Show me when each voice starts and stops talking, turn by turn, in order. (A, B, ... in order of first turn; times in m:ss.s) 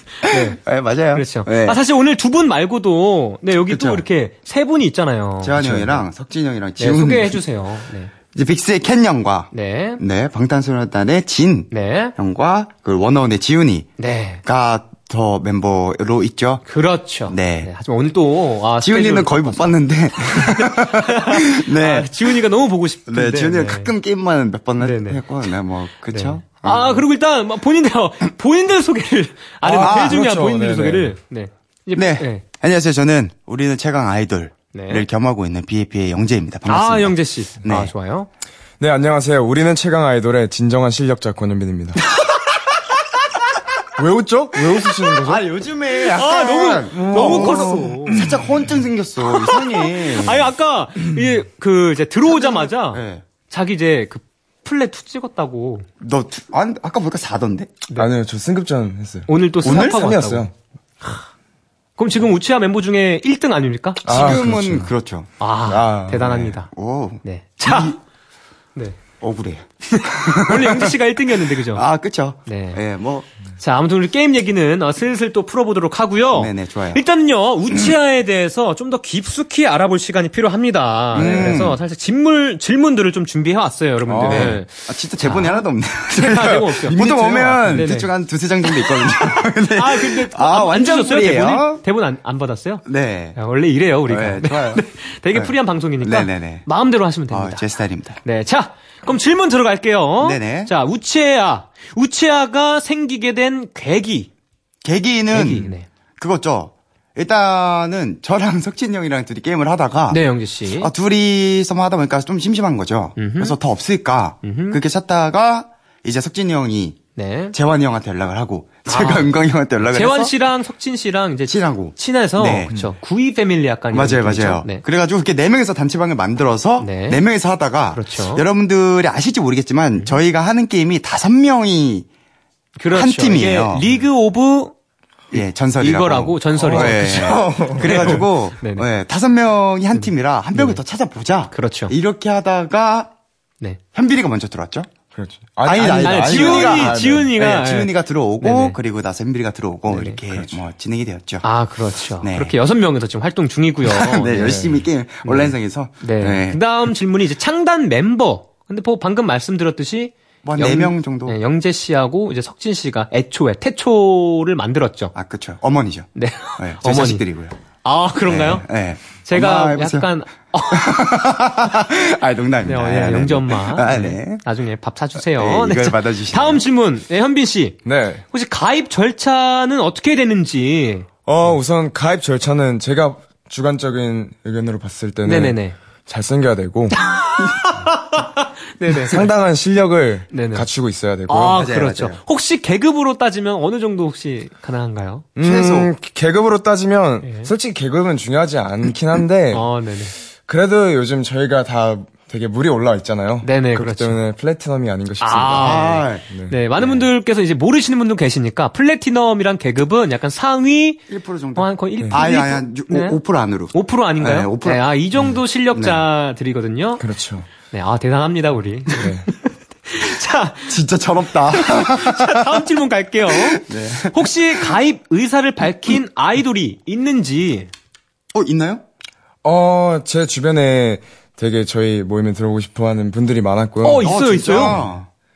0:00.2-0:00.6 A
0:00.2-0:01.8 B
0:01.1-0:05.6 A
0:03.7-0:04.0 B
0:05.4-0:07.4 B
0:05.6-0:06.0 C
0:06.8-0:08.1 A
0:08.3-0:13.9 B
0:09.5-0:10.0 A
0:11.7-0:12.1 A
0:14.0-0:14.4 A
0:14.5-0:16.6 B
0:16.7-0:23.9 A
0:17.3-0:17.7 B
0:18.8-0:22.3 B
0:23.1-0:27.0 B
0:24.8-0:25.2 A
0:26.1-0:32.4 A
0:29.6-0:31.2 C
0:29.8-0:30.2 B
0:32.0-0:37.9 B
0:34.7-0:35.1 A
0:36.7-0:38.3 A
0:38.8-0:42.0 C
0:44.0-0:45.5 C
0:45.2-0:50.5 B
0:46.1-0:48.2 A
0:46.9-0:48.4 C
0:49.2-0:55.9 A
0:52.3-0:53.2 B
0:56.0-0:57.7 B
0:58.0-1:00.5 C
0:59.3-1:00.5 A
0:59.6-1:00.1 B
1:02.0-1:04.0 A
1:04.0-1:05.3 B
1:04.0-1:04.9 C
1:05.4-1:06.7 A
1:05.7-1:06.5 C
1:06.5-1:08.0 B
1:07.2-1:08.0 A
1:09.2-1:13.3 B
1:09.9-1:11.8 A
1:12.5-1:12.8 A
1:13.6-1:28.1 A
1:16.4-1:17.0 B
1:21.1-1:21.8 B
1:24.1-1:24.6 C
1:24.1-1:31.8 B
1:28.6-1:32.8 A
1:32.8-1:33.4 B
1:33.4-1:37.6 A
1:34.1-1:36.7 B
1:37.3-1:38.2 B
1:38.2-1:44.3 A
1:40.2-1:40.7 B
1:44.8-1:50.2 B
1:45.3-1:45.9 A
1:50.1-1:50.9 A
1:50.8-1:57.0 B
1:53.2-1:53.6 A
1:54.4-1:54.8 A
1:57.2-1:57.6 A
1:57.5-2:00.3 B
1:58.9-1:59.3 A
1:59.8-2:04.8 A
2:01.5-2:02.7 B
2:03.9-2:12.1 B
2:06.8-2:07.2 A
2:07.9-2:08.4 A
2:12.8-2:14.7 A
2:12.9-2:13.9 B
2:15.3-2:23.1 B
2:15.8-2:18.9 A
2:16.6-2:18.3 C
2:20.0-2:20.8 A
2:21.5-2:21.9 A
2:23.9-2:24.9 B
2:25.1-2:27.3 C
2:25.7-2:31.4 B
2:26.0-2:28.8 A
2:29.9-2:30.2 A
2:31.4-2:34.6 A
2:32.2-2:32.6 B
2:33.9-2:36.6 B
2:34.4-2:34.8 C
2:35.2-2:45.1 A
2:40.4-2:41.4 B
2:45.1-2:47.6 B
2:46.2-2:47.2 A
2:47.8-2:48.7 A
2:48.2-2:50.1 B
2:49.2-2:51.0 A
2:50.7-2:54.4 B
2:52.6-2:57.8 A
2:55.2-2:56.6 B
2:57.8-2:58.2 C
2:58.3-3:01.1 A
3:01.3-3:07.0 C
3:05.2-3:05.8 A
3:07.0-3:09.3 A
3:08.9-3:11.7 C
3:10.3-3:10.7 A
3:11.3-3:15.3 A
3:11.5-3:12.2 B
3:15.4-3:19.7 C
3:15.4-3:15.9 B
3:17.2-3:17.5 A
3:19.5-3:20.1 A
3:20.5-3:26.6 C
3:23.4-3:24.2 A
3:25.2-3:31.0 A
3:25.6-3:26.2 B
3:26.8-3:27.0 B
3:31.1-3:34.9 B
3:31.6-3:33.2 A
3:32.0-3:32.2 C
3:33.7-3:37.1 A
3:35.7-3:36.0 B
3:37.0-3:37.5 C
3:37.7-3:40.8 A
3:38.9-3:39.3 C
3:40.7-3:42.4 B
3:41.5-3:47.7 A
3:43.5-3:44.6 B
3:48.3-3:48.8 B
3:49.4-3:54.9 C
3:53.8-3:54.8 A
3:54.0-3:55.1 B